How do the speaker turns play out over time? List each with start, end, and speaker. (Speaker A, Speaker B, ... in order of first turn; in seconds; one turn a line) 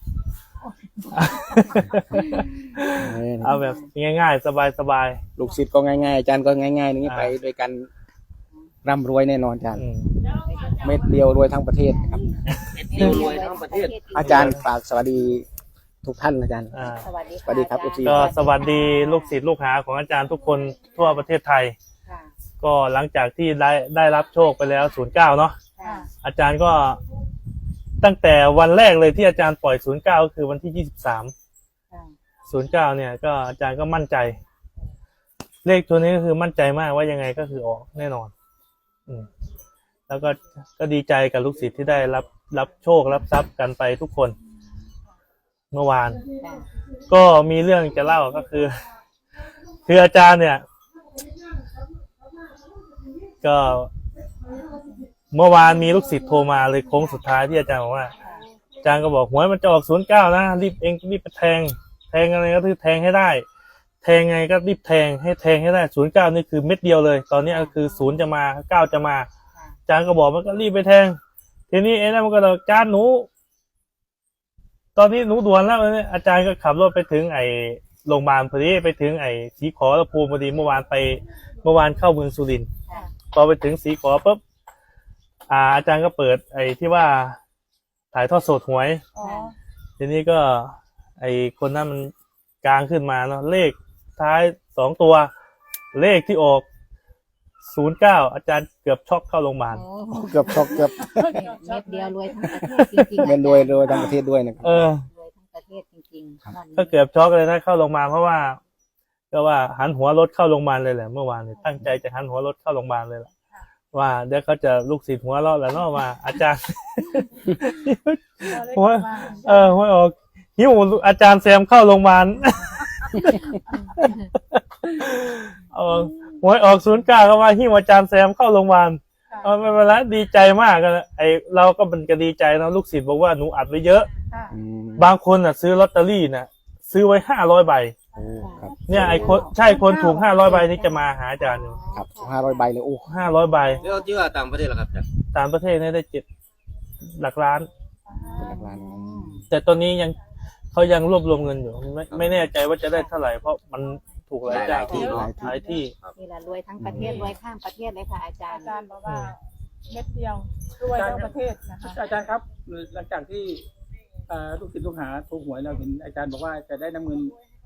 Speaker A: 1.1-5.2
Speaker B: 1.4-3.9
Speaker C: 3.0-3.6
Speaker C: 5.4-7.9
Speaker A: 7.0-7.3
Speaker C: 8.8-9.9
Speaker A: 9.8-10.1
Speaker B: 10.2-11.2
Speaker C: 10.8-12.2
Speaker B: 11.8-14.5
Speaker D: 12.7-14.4
Speaker A: 12.9-13.2
Speaker C: 14.1-15.4
Speaker A: 14.2-14.6
Speaker C: 16.0-16.7
Speaker A: 16.7-17.1
Speaker B: 16.8-19.3
Speaker C: 17.4-18.4
Speaker A: 18.0-21.7
Speaker B: 21.0-21.3
Speaker B: 22.1-22.3
Speaker A: 22.6-25.6
Speaker B: 25.8-26.1
Speaker E: 25.8-26.1
Speaker A: 26.2-27.0
Speaker A: 28.0-31.3
Speaker B: 31.9-32.1
Speaker A: 32.5-34.4
Speaker A: 35.6-38.3
Speaker A: 40.1-44.4
Speaker A: 45.7-46.2
Speaker B: 46.4-46.7
Speaker A: 47.1-48.8
Speaker A: 49.9-50.6
Speaker A: 53.4-53.9
Speaker E: 54.7-55.0
Speaker A: 55.3-58.1
Speaker B: 58.1-58.5
Speaker A: 58.8-63.5
Speaker A: 64.0-69.3
Speaker B: 67.5-68.3
Speaker B: 69.5-69.8
Speaker A: 69.9-71.2
Speaker A: 71.7-73.3
Speaker A: 74.9-82.7
Speaker A: 83.3-84.4
Speaker A: 85.5-87.4
Speaker A: 88.1-89.0
Speaker E: 89.1-89.5
Speaker B: 89.2-89.5
Speaker A: 90.0-95.3
Speaker A: 95.9-96.7
Speaker A: 97.6-99.8
Speaker B: 99.7-107.0
Speaker C: 100.1-101.2
Speaker E: 101.0-102.7
Speaker C: 102.7-104.9
Speaker A: 104.6-105.1
Speaker A: 106.8-108.6
Speaker A: 109.3-113.3
Speaker A: 113.9-134.1
Speaker E: 118.4-119.8
Speaker E: 129.3-129.6
Speaker E: 134.3-134.6
Speaker C: 134.5-135.1
Speaker A: 135.0-137.9
Speaker C: 138.1-139.4
Speaker E: 138.1-140.9
Speaker B: 138.4-139.9
Speaker A: 138.9-141.8
Speaker B: 141.4-142.7
Speaker C: 141.9-143.1
Speaker A: 143.1-143.8
Speaker D: 143.8-145.1
Speaker A: 145.3-146.2
Speaker A: 147.1-147.7
Speaker E: 148.1-148.7
Speaker B: 148.1-149.4
Speaker C: 148.4-149.4
Speaker A: 149.5-150.2
Speaker A: 150.7-155.9
Speaker D: 154.4-155.3
Speaker E: 154.5-155.8
Speaker C: 154.8-155.6
Speaker B: 156.1-158.8
Speaker C: 156.8-157.3
Speaker E: 156.9-157.3
Speaker E: 158.5-162.0
Speaker A: 159.1-159.3
Speaker F: 160.9-163.6
Speaker F: 164.3-167.3